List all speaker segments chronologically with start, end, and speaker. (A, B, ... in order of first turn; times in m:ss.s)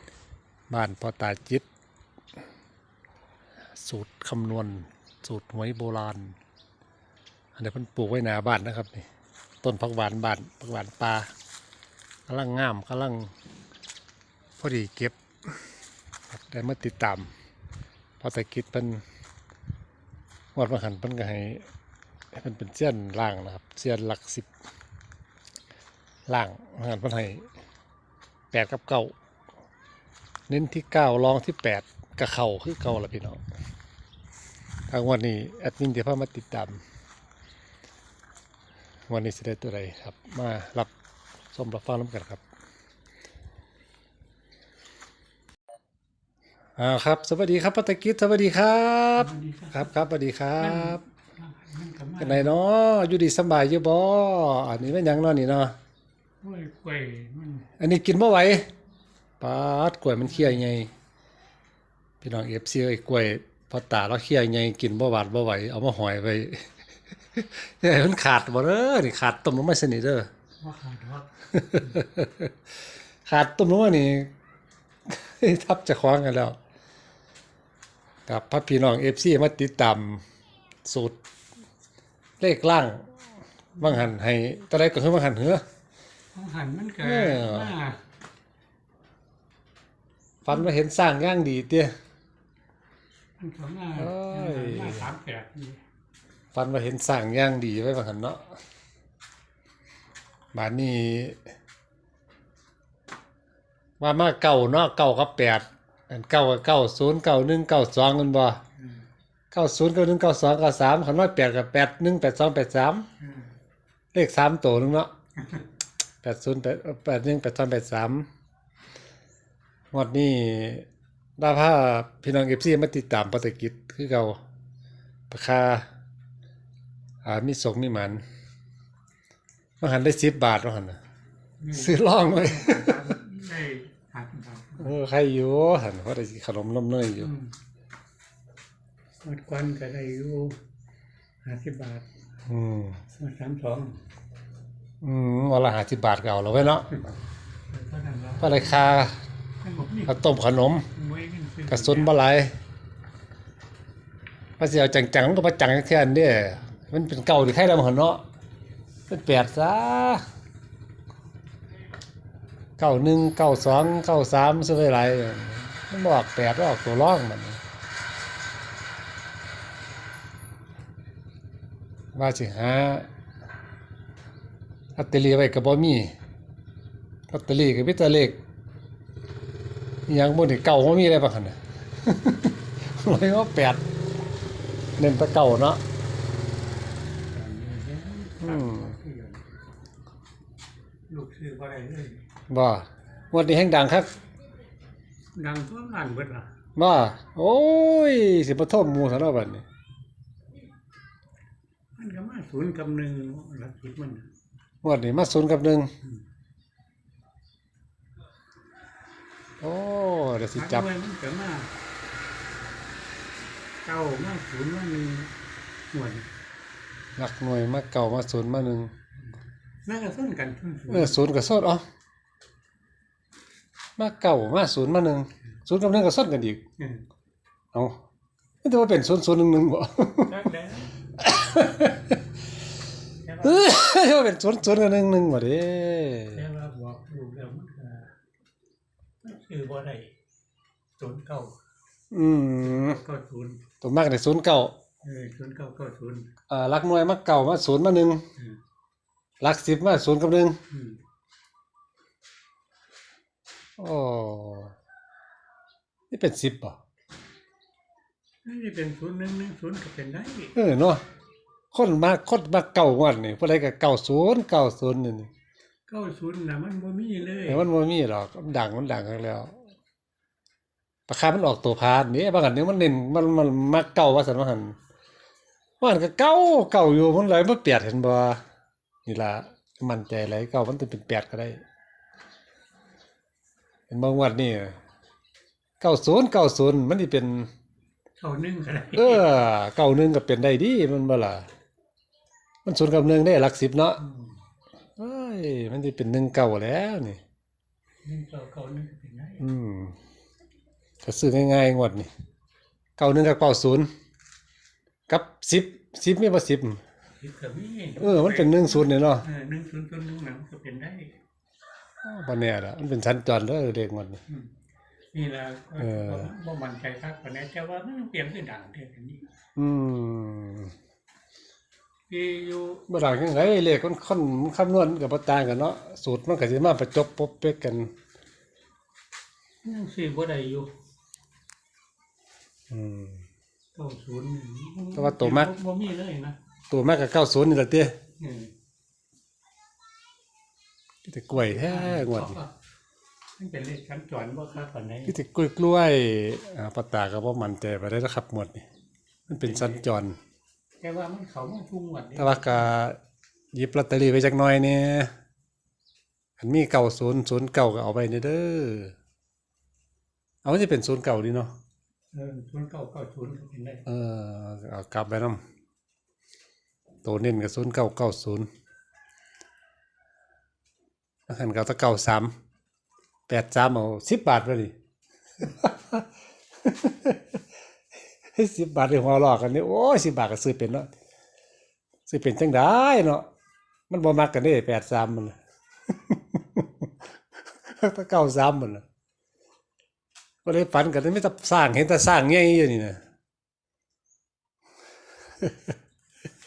0:00.7-0:01.6 A
0:03.8-0:06.4 A
0:07.6-0:09.1 A
0:09.6-0:11.3 A
0:12.3-0:13.3 A
0:14.6-0:15.5 A
0:16.3-0:17.3 A
0:18.2-0:19.0 A
0:20.5-0:21.6 A
0:22.3-0:24.5 A
0:26.3-0:27.4 A
0:28.5-0:29.1 A
0:30.5-0:33.4 A
0:34.9-0:36.8 A
0:39.1-0:40.9 A
0:41.5-0:42.4 A
0:46.8-0:51.0 A
0:49.2-0:49.9 B
0:50.6-0:52.5 B
0:52.2-0:55.7 A
0:56.4-0:57.7 B
0:57.8-0:58.6 A
0:59.4-1:00.9 A
1:02.2-1:06.8 A
1:07.3-1:10.3 A
1:10.6-1:12.0 B
1:11.5-1:12.5 A
1:13.2-1:14.3 A
1:15.1-1:16.6 A
1:18.3-1:20.2 A
1:20.8-1:21.2 A
1:22.4-1:23.1 A
1:23.8-1:25.6 A
1:26.3-1:28.0 B
1:27.0-1:27.7 A
1:30.4-1:31.9 A
1:33.4-1:35.8 B
1:34.0-1:35.1 A
1:36.5-1:38.5 A
1:40.5-1:41.4 A
1:44.0-1:48.6 A
1:49.5-1:53.1 A
1:53.2-1:53.5 B
1:54.1-1:55.1 A
1:56.2-1:58.3 A
1:59.9-2:00.8 A
2:01.4-2:04.4 A
2:05.3-2:05.9 A
2:07.2-2:08.2 A
2:09.8-2:11.0 A
2:11.6-2:14.9 B
2:11.7-2:13.1 A
2:14.8-2:17.3 A
2:17.2-2:17.5 B
2:19.2-2:20.6 B
2:21.4-2:22.1 B
2:22.5-2:23.0 A
2:23.1-2:24.0 B
2:25.0-2:27.0 A
2:27.7-2:28.8 B
2:28.4-2:29.2 A
2:29.6-2:30.2 B
2:30.0-2:30.9 A
2:30.9-2:32.1 B
2:31.7-2:32.5 A
2:34.6-2:38.2 A
2:39.1-2:40.2 A
2:42.8-2:47.6 A
2:52.1-2:53.1 A
2:55.0-2:56.1 A
2:57.3-2:58.4 A
3:00.1-3:03.8 A
3:05.0-3:05.8 A
3:07.3-3:09.4 B
3:08.4-3:09.0 A
3:11.1-3:12.2 B
3:12.5-3:14.1 A
3:15.3-3:16.5 B
3:16.8-3:19.6 A
3:22.0-3:24.3 B
3:24.8-3:25.9 A
3:29.6-3:30.9 A
3:30.5-3:31.7 B
3:33.8-3:35.3 B
3:35.9-3:36.3 B
3:37.2-3:38.9 A
3:39.8-3:41.2 B
3:40.9-3:41.8 A
3:44.0-3:46.6 A
3:46.8-3:47.0 B
3:47.7-3:48.0 A
3:48.6-3:50.3 A
3:50.2-3:50.9 B
3:51.2-3:52.2 A
3:53.2-3:53.8 B
3:53.4-3:56.4 A
3:56.3-3:58.1 B
3:59.2-4:00.1 B
4:01.0-4:01.5 B
4:02.1-4:03.0 A
4:02.6-4:03.6 B
4:03.8-4:04.7 A
4:05.0-4:06.3 B
4:06.5-4:08.2 A
4:09.4-4:10.6 A
4:10.7-4:11.0 B
4:13.8-4:14.7 A
4:16.1-4:16.8 A
4:18.4-4:20.5 B
4:20.5-4:21.0 A
4:21.7-4:25.3 A
4:25.9-4:27.7 B
4:27.5-4:29.6 A
4:31.1-4:34.8 A
4:35.8-4:38.4 A
4:39.0-4:41.6 A
4:43.9-4:44.8 A
4:45.8-4:47.5 A
4:48.2-4:49.3 B
4:48.9-4:51.5 A
4:52.6-4:54.0 A
4:54.0-4:54.3 B
4:55.0-4:57.2 A
4:58.0-4:59.4 B
4:59.4-5:00.0 A
5:01.0-5:02.1 A
5:03.0-5:03.9 A
5:05.1-5:06.8 A
5:07.2-5:11.1 B
5:08.0-5:09.2 A
5:12.0-5:14.2 A
5:15.1-5:19.2 B
5:15.8-5:16.3 A
5:19.6-5:20.7 A
5:22.1-5:22.8 B
5:22.9-5:27.9 A
5:29.6-5:30.7 B
5:32.7-5:33.2 A
5:33.7-5:36.4 B
5:34.9-5:35.5 A
5:36.7-5:38.0 A
5:38.2-5:38.5 B
5:41.0-5:42.4 A
5:41.3-5:42.5 B
5:43.4-5:45.2 B
5:45.0-5:48.6 A
5:49.3-5:50.2 A
5:49.3-5:49.8 B
5:50.8-5:52.6 B
5:52.2-5:53.0 A
5:53.5-5:55.1 A
5:56.4-5:58.9 A
6:00.4-6:01.5 A
6:02.1-6:03.8 B
6:03.8-6:05.4 A
6:07.0-6:08.5 A
6:11.3-6:12.3 A
6:13.3-6:14.7 A
6:15.4-6:16.1 A
6:16.6-6:17.2 A
6:18.3-6:20.9 A
6:22.1-6:23.3 A
6:23.9-6:25.4 A
6:25.9-6:26.9 A
6:27.7-6:28.8 A
6:30.4-6:33.0 A
6:35.4-6:35.7 A